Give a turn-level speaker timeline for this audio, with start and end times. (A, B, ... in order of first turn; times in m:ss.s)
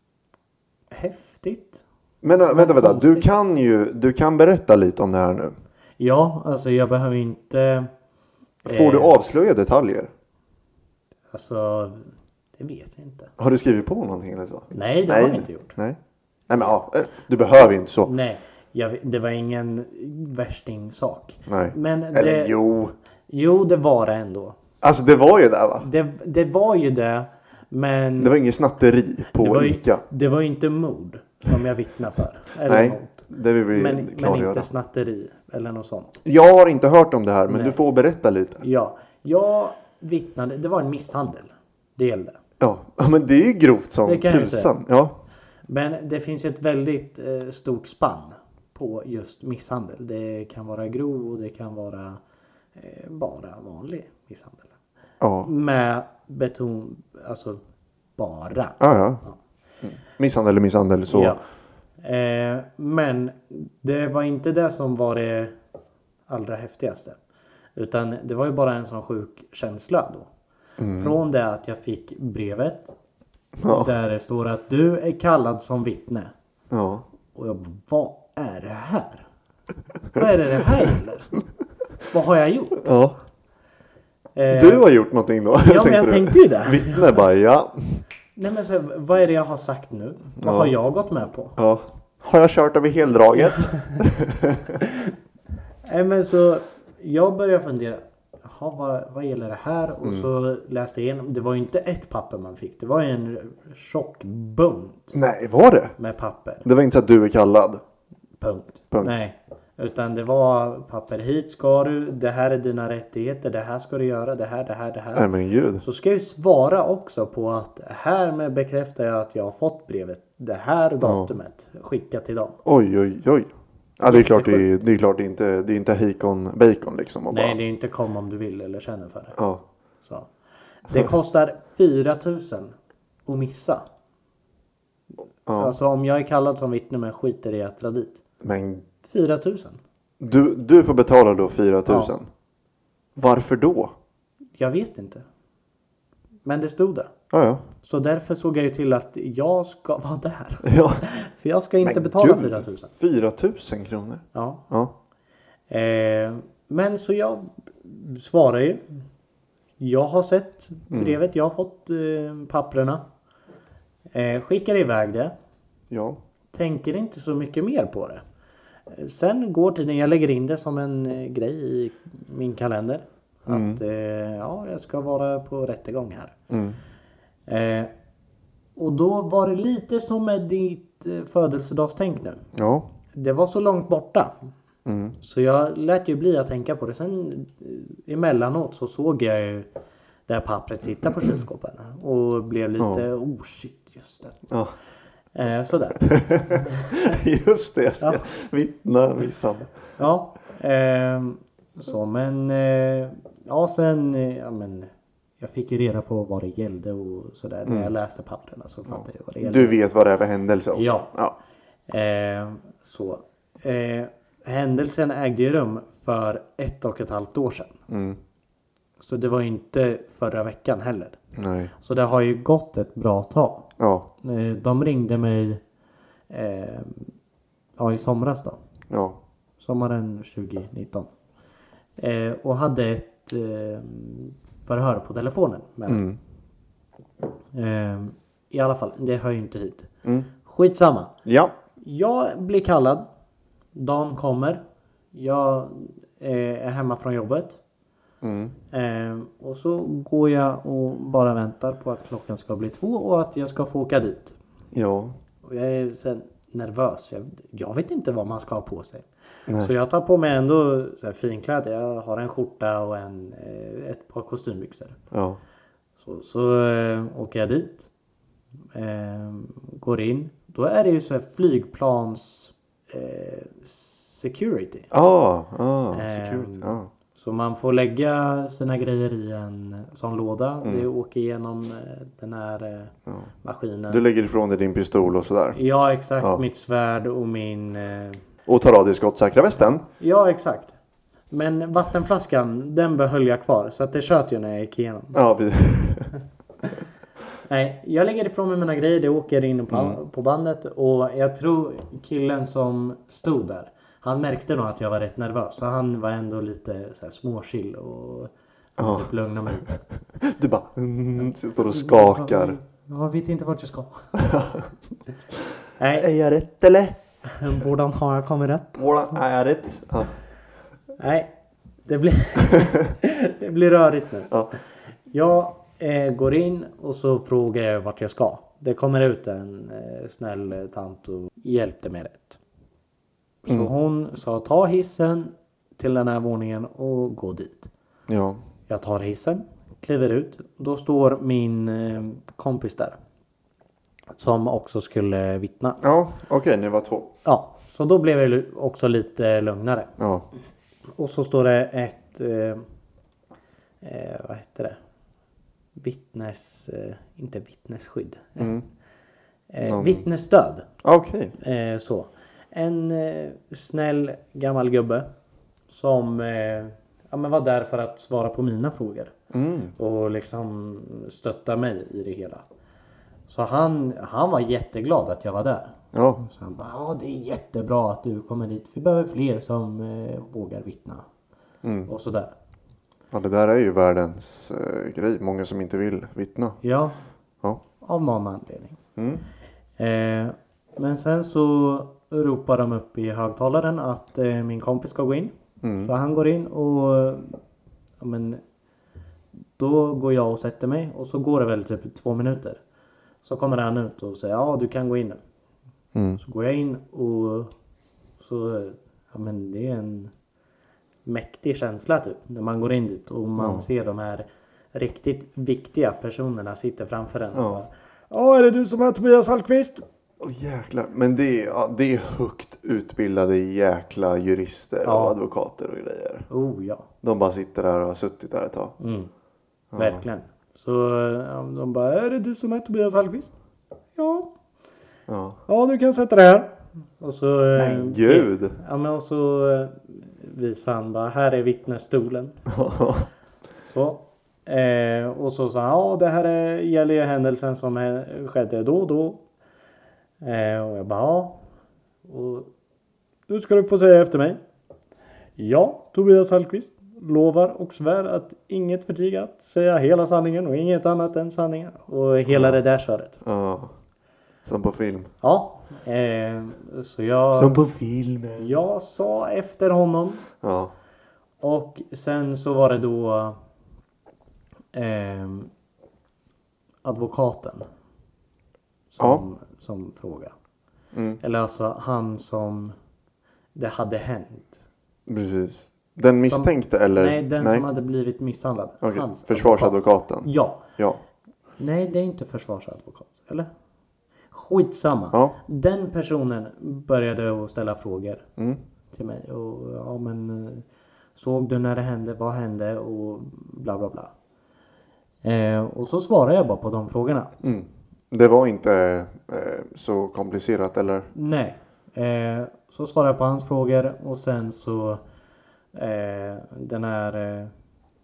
0:00.9-0:01.8 A
0:02.2-0:05.5 B
0:02.5-0:03.3 A
0:06.0-0:07.9 A
0:08.6-0:10.1 B
0:08.7-0:09.2 A
0:11.3-0:13.3 A
0:13.4-0:16.0 B
0:14.7-0:15.8 A
0:16.5-0:18.1 B
0:18.0-0:22.6 A
0:21.5-0:22.9 B
0:23.3-0:24.6 A
0:24.8-0:25.9 B
0:25.8-0:28.4 A
0:28.2-0:30.0 B
0:29.3-0:36.2 A
0:32.6-0:34.7 B
0:36.2-0:38.6 B
0:37.5-0:37.8 A
0:38.6-0:42.4 A
0:42.6-0:45.2 B
0:44.0-0:44.7 A
0:45.7-0:52.2 A
0:52.8-0:54.7 A
0:55.2-0:55.5 B
0:55.4-0:57.6 A
0:58.2-0:59.4 A
0:58.8-0:59.2 B
0:59.8-1:01.4 B
1:01.1-1:01.4 A
1:02.0-1:05.6 A
1:06.3-1:07.2 A
1:07.8-1:10.3 A
1:10.8-1:11.2 B
1:10.9-1:13.0 A
1:13.6-1:13.9 B
1:13.6-1:16.3 A
1:16.7-1:17.0 B
1:17.3-1:19.3 A
1:20.1-1:21.3 A
1:22.1-1:22.9 A
1:22.8-1:23.2 B
1:24.4-1:24.9 A
1:24.5-1:28.0 B
1:25.6-1:27.1 A
1:28.4-1:31.6 A
1:30.4-1:30.7 B
1:31.6-1:34.8 B
1:34.8-1:35.1 A
1:35.8-1:45.2 A
1:45.1-1:46.0 B
1:46.0-1:46.6 A
1:46.6-1:47.8 B
1:48.4-1:55.3 A
1:55.2-1:55.8 B
1:55.8-2:02.6 A
2:01.0-2:01.3 B
2:02.6-2:07.6 B
2:04.0-2:04.7 A
2:07.3-2:09.4 A
2:09.4-2:09.6 B
2:10.9-2:12.7 A
2:13.3-2:13.8 A
2:15.5-2:15.8 B
2:15.6-2:18.2 A
2:18.4-2:18.9 B
2:19.0-2:19.8 A
2:20.2-2:22.3 B
2:21.9-2:22.1 A
2:23.2-2:23.9 B
2:24.6-2:25.2 A
2:26.4-2:27.1 A
2:27.3-2:27.6 B
2:27.8-2:32.9 A
2:30.6-2:31.0 B
2:31.8-2:34.9 B
2:34.3-2:34.6 A
2:35.7-2:38.8 A
2:39.8-2:43.0 A
2:40.9-2:41.2 B
2:44.1-2:45.3 A
2:45.9-2:46.2 B
2:46.5-2:48.2 A
2:48.9-2:56.4 A
2:53.5-2:53.8 B
2:56.5-2:56.8 B
2:57.5-2:57.9 A
2:58.8-3:02.5 A
3:02.6-3:02.9 B
3:03.1-3:04.4 A
3:04.8-3:05.2 B
3:05.2-3:09.7 A
3:10.3-3:14.4 A
3:12.8-3:13.1 B
3:15.3-3:16.9 A
3:16.0-3:19.7 B
3:20.0-3:29.8 A
3:28.9-3:31.4 B
3:30.8-3:31.1 A
3:31.9-3:37.8 A
3:37.9-3:38.2 B
3:39.0-3:41.2 A
3:41.4-3:41.7 B
3:41.8-3:43.7 A
3:43.8-3:44.1 B
3:44.2-3:45.6 A
3:46.3-3:47.1 A
3:47.8-3:48.6 A
3:48.9-3:49.2 B
3:49.6-3:51.1 A
3:52.0-3:56.0 A
3:55.9-3:56.2 B
3:57.5-3:59.9 A
4:00.4-4:01.1 A
4:01.2-4:01.6 B
4:01.8-4:03.1 A
4:03.8-4:04.6 A
4:05.1-4:07.6 A
4:08.2-4:08.6 B
4:08.7-4:14.4 A
4:14.7-4:15.2 B
4:15.4-4:19.1 A
4:19.6-4:25.0 A
4:25.1-4:25.4 B
4:26.0-4:27.9 A
4:28.7-4:34.9 A
4:34.9-4:36.9 B
4:35.9-4:44.0 A
4:43.9-4:45.6 B
4:45.6-4:48.2 A
4:48.5-4:49.8 B
4:50.0-4:50.8 A
4:51.3-4:55.2 A
4:55.1-4:56.1 B
4:57.5-5:09.7 A
4:59.7-5:00.0 B
5:08.8-5:09.1 B
5:09.7-5:12.6 B
5:11.7-5:14.1 A
5:14.2-5:14.7 B
5:15.8-5:16.1 A
5:15.9-5:17.0 B
5:17.3-5:18.8 A
5:18.8-5:20.1 B
5:21.0-5:21.3 A
5:21.9-5:24.3 A
5:25.1-5:32.4 A
5:33.4-5:37.7 A
5:38.1-5:38.4 B
5:38.7-5:43.0 A
5:44.2-5:45.8 A
5:45.8-5:47.1 B
5:47.2-5:49.9 A
5:50.0-5:50.3 B
5:51.0-5:52.6 A
5:53.8-5:54.8 A
5:55.8-5:58.5 A
5:58.4-5:58.6 B
5:59.5-6:00.7 A
5:59.6-6:00.0 B
6:00.8-6:01.3 B
6:01.4-6:05.1 A
6:05.7-6:09.1 A
6:09.3-6:09.7 B
6:09.8-6:12.4 A
6:13.3-6:21.1 A
6:15.9-6:16.2 B
6:21.6-6:21.9 B
6:21.9-6:22.3 A
6:23.1-6:26.6 B
6:26.6-6:27.0 A
6:27.8-6:28.8 A
6:29.0-6:29.2 B
6:29.8-6:37.4 A
6:35.6-6:35.9 B
6:38.0-6:38.4 A
6:39.6-6:42.6 A
6:43.2-6:45.2 A
6:46.0-6:46.2 B
6:46.2-6:47.5 A
6:48.2-6:50.1 A
6:51.0-6:59.8 A
6:53.4-6:53.6 B
6:57.3-6:57.6 B
7:00.2-7:06.3 B
7:04.8-7:05.2 A
7:06.3-7:06.9 A
7:07.0-7:08.8 B
7:08.8-7:09.1 A
7:09.7-7:10.0 B
7:09.8-7:13.3 A
7:14.0-7:14.3 A
7:15.1-7:15.4 B
7:15.5-7:22.4 A
7:17.6-7:18.6 B
7:22.5-7:23.1 B
7:23.7-7:29.2 A
7:30.2-7:31.4 A
7:32.1-7:32.5 A
7:33.3-7:34.4 A
7:35.4-7:43.2 A
7:42.3-7:42.6 B
7:43.2-7:43.7 B
7:44.4-7:45.1 B
7:45.2-7:47.6 A
7:47.4-7:48.5 B
7:48.4-7:50.3 A
7:50.4-7:50.7 B
7:51.4-7:53.4 A
7:54.7-7:55.5 A
7:56.8-7:57.7 A
7:58.9-8:00.3 A
7:59.0-7:59.2 B
8:00.9-8:01.2 B
8:01.2-8:02.8 A
8:03.6-8:04.6 A
8:05.1-8:07.6 B
8:06.3-8:10.6 A
8:08.8-8:11.0 B
8:11.6-8:13.5 A
8:14.3-8:18.3 A
8:18.9-8:24.1 A
8:25.2-8:27.3 A
8:27.4-8:31.1 B
8:31.1-8:35.0 A
8:35.7-8:37.5 A